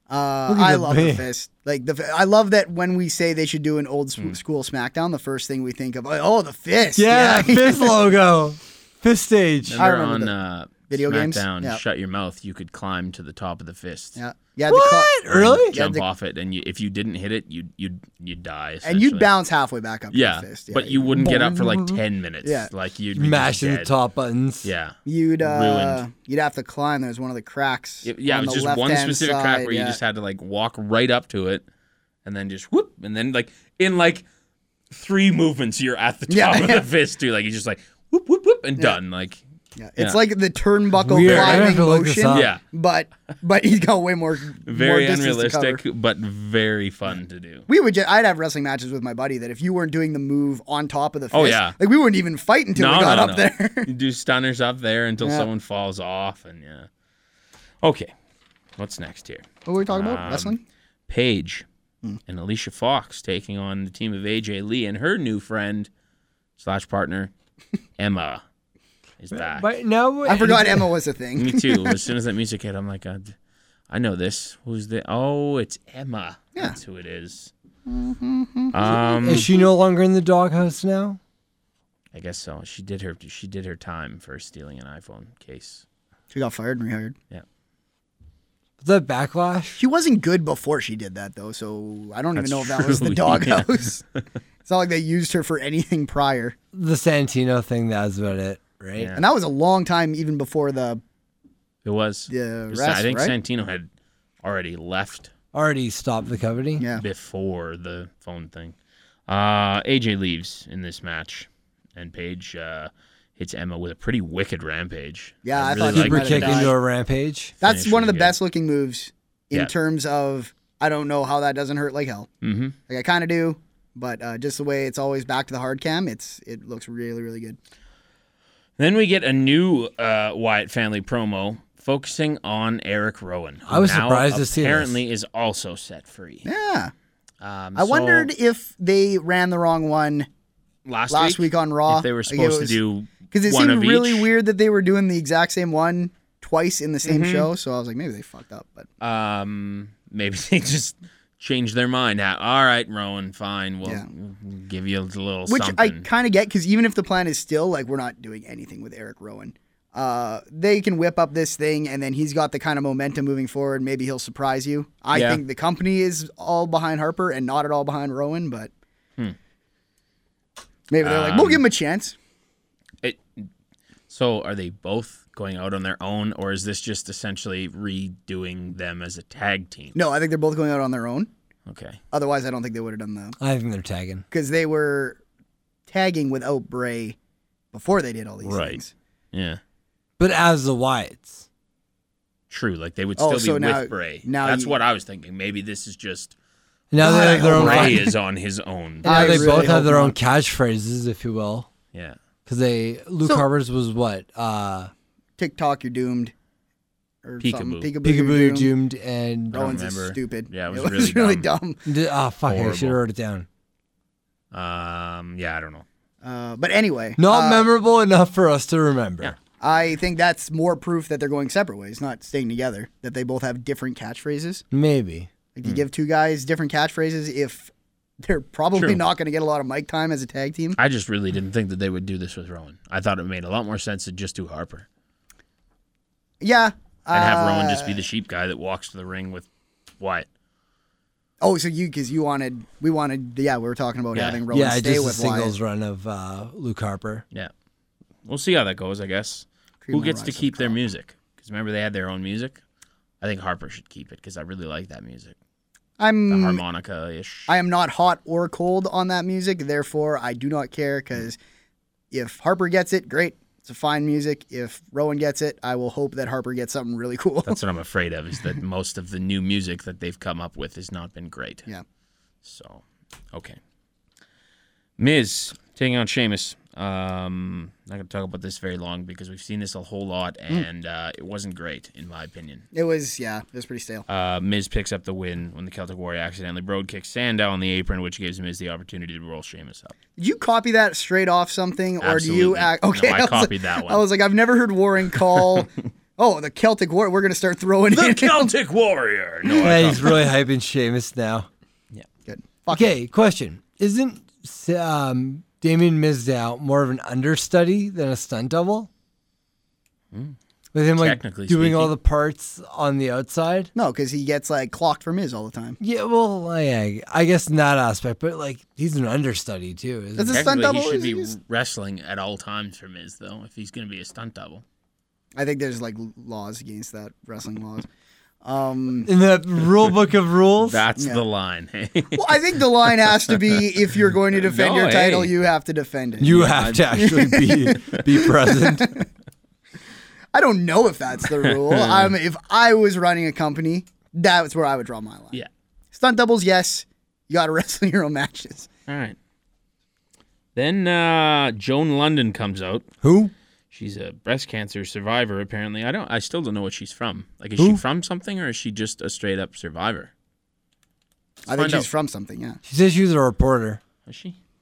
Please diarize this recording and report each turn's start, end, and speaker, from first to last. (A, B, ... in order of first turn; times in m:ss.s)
0:00.1-0:08.0 A
0:00.5-0:01.2 B
0:07.0-0:09.8 B
0:09.7-0:14.2 C
0:09.8-0:10.3 A
0:10.9-0:11.8 A
0:14.2-0:16.0 A
0:14.7-0:15.8 B
0:15.3-0:19.3 C
0:18.8-0:21.7 A
0:20.1-0:23.9 C
0:21.2-0:21.9 B
0:22.4-0:22.7 A
0:23.2-0:24.7 B
0:24.6-0:26.0 C
0:25.1-0:30.0 A
0:28.0-0:31.6 C
0:32.2-0:34.2 C
0:34.9-0:39.4 C
0:36.3-0:36.8 A
0:39.8-0:45.8 A
0:41.1-0:42.5 B
0:41.2-0:41.8 C
0:42.3-0:42.6 C
0:44.6-0:47.7 C
0:47.7-0:53.9 A
0:51.3-0:51.8 C
0:52.8-0:56.9 C
0:55.2-0:55.5 A
0:57.8-0:58.1 C
0:58.8-1:00.6 C
0:59.6-1:00.6 A
1:01.1-1:01.7 C
1:02.3-1:05.9 C
1:06.6-1:07.3 C
1:08.0-1:08.4 C
1:09.2-1:09.7 C
1:09.3-1:10.9 B
1:10.2-1:12.0 A
1:11.4-1:13.4 C
1:13.9-1:17.5 C
1:17.9-1:19.7 A
1:18.7-1:19.5 C
1:19.2-1:21.2 B
1:22.1-1:25.8 C
1:26.3-1:27.2 A
1:28.8-1:29.8 B
1:29.8-1:34.0 A
1:32.4-1:34.2 C
1:34.6-1:36.6 A
1:36.7-1:39.1 B
1:39.0-1:39.2 C
1:39.2-1:41.0 A
1:41.8-1:43.9 C
1:42.3-1:43.4 A
1:44.4-1:45.3 C
1:45.5-1:46.8 B
1:46.8-1:47.0 A
1:47.0-1:48.8 C
1:49.3-1:56.7 C
1:55.4-1:56.8 A
1:55.9-1:57.6 B
1:57.6-2:02.3 A
1:57.6-1:58.4 C
2:02.4-2:02.8 C
2:02.9-2:07.6 A
2:08.8-2:16.5 C
2:13.7-2:15.0 B
2:16.4-2:16.9 A
2:17.4-2:18.3 C
2:17.8-2:20.3 A
2:20.8-2:24.3 C
2:21.1-2:22.8 A
2:23.3-2:28.9 A
2:27.0-2:27.5 C
2:29.0-2:36.1 C
2:35.5-2:48.7 A
2:45.1-2:45.4 C
2:50.9-2:52.2 A
2:51.0-2:51.6 C
2:53.0-2:53.5 C
2:54.1-3:00.0 C
3:00.0-3:01.3 A
3:01.7-3:02.0 C
3:02.1-3:03.4 A
3:03.4-3:04.2 B
3:04.3-3:05.2 A
3:05.9-3:07.2 A
3:07.7-3:08.9 A
3:08.4-3:08.8 C
3:09.3-3:09.6 C
3:10.2-3:11.4 B
3:12.5-3:16.4 C
3:13.2-3:14.8 A
3:16.9-3:18.1 B
3:17.0-3:18.2 A
3:17.4-3:19.7 C
3:19.0-3:20.2 A
3:19.0-3:21.7 B
3:22.5-3:24.9 B
3:25.4-3:26.3 A
3:27.2-3:28.7 A
3:27.4-3:27.9 C
3:28.0-3:29.7 B
3:29.5-3:31.5 C
3:29.5-3:31.8 A
3:31.9-3:33.5 B
3:32.5-3:33.0 C
3:34.5-3:35.8 C
3:36.2-3:37.7 A
3:37.2-3:39.4 B
3:39.6-3:44.6 A
3:44.7-3:45.3 B
3:45.6-3:50.8 A
3:48.8-3:49.0 C
3:50.8-3:54.9 C
3:56.4-3:58.0 A
3:57.1-3:59.5 C
4:00.0-4:00.3 C
4:01.4-4:05.6 A
4:04.1-4:04.4 C
4:04.5-4:07.2 B
4:08.3-4:12.6 C
4:09.8-4:10.8 A
4:13.2-4:15.4 C
4:16.0-4:16.6 A
4:16.3-4:17.5 C
4:17.5-4:21.4 A
4:22.1-4:27.6 A
4:27.4-4:31.7 C
4:32.4-4:33.6 C
4:35.0-4:42.7 C
4:42.7-4:44.0 A
4:44.1-4:50.0 C
4:50.2-4:58.5 A
4:52.0-4:54.0 C
4:55.4-4:55.6 C
4:57.9-5:00.3 C
4:59.5-5:00.1 A
4:59.6-5:01.5 B
5:02.3-5:02.9 A
5:02.7-5:08.9 B
5:10.7-5:13.7 B
5:10.9-5:12.0 C
5:13.8-5:15.8 A
5:15.8-5:20.4 B
5:20.2-5:21.4 A
5:20.3-5:24.6 C
5:25.4-5:27.9 A
5:28.4-5:29.1 A
5:29.0-5:30.8 B
5:30.6-5:33.6 C
5:32.1-5:39.1 A
5:34.3-5:35.4 C
5:36.2-5:39.0 B
5:36.3-5:38.0 C
5:40.3-5:45.4 A
5:41.4-5:42.2 C
5:45.9-5:48.7 A
5:48.9-5:49.2 C
5:50.6-5:52.9 C
5:53.0-5:53.3 B
5:53.7-6:00.1 C
6:01.5-6:02.6 A
6:01.5-6:01.9 C
6:02.7-6:03.8 B
6:04.1-6:04.4 C